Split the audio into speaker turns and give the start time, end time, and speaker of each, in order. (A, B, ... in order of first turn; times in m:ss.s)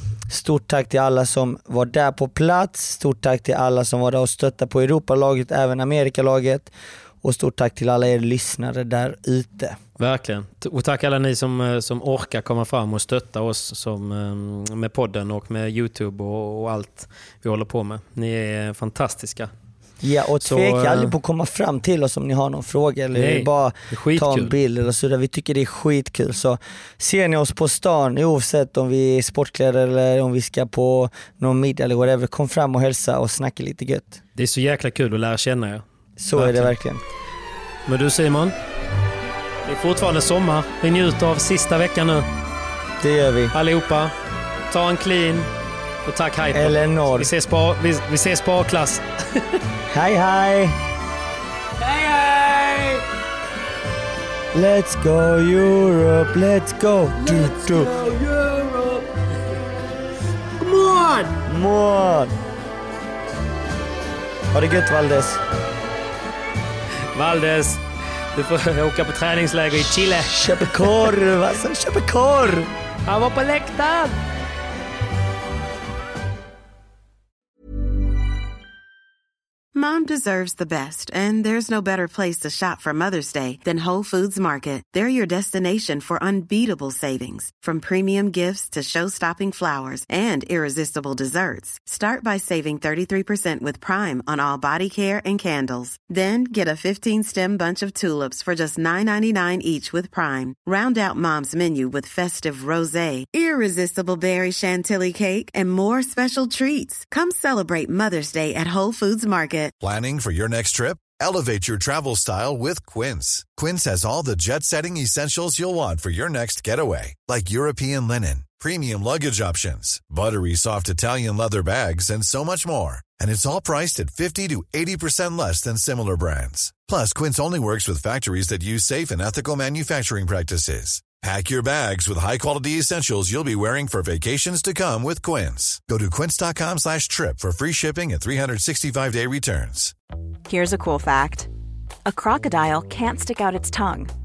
0:00.3-0:09.8 A
0:10.0-0:19.5 B
0:20.0-0:34.2 A
0:20.4-0:21.1 B
0:23.1-0:24.5 B
0:34.4-0:35.8 B
0:36.2-0:37.0 A
0:36.4-0:36.7 B
0:37.9-0:38.6 B
0:39.7-0:42.3 B
0:43.0-0:43.6 A
0:43.5-0:44.1 B
0:44.7-0:45.5 B
0:46.1-0:49.1 B
0:46.5-0:47.3 A
0:49.9-0:50.8 A
0:51.8-0:53.0 B
0:54.5-0:57.9 A
0:57.2-0:59.3 B
1:00.6-1:01.4 B
1:01.5-1:02.4 A
1:04.5-1:05.4 A
1:07.1-1:10.9 B
1:10.3-1:12.7 A
1:13.1-1:14.2 B
1:19.7-1:49.7 C
1:49.8-2:19.9 D
2:20.5-2:21.5 E
2:22.1-2:24.1 E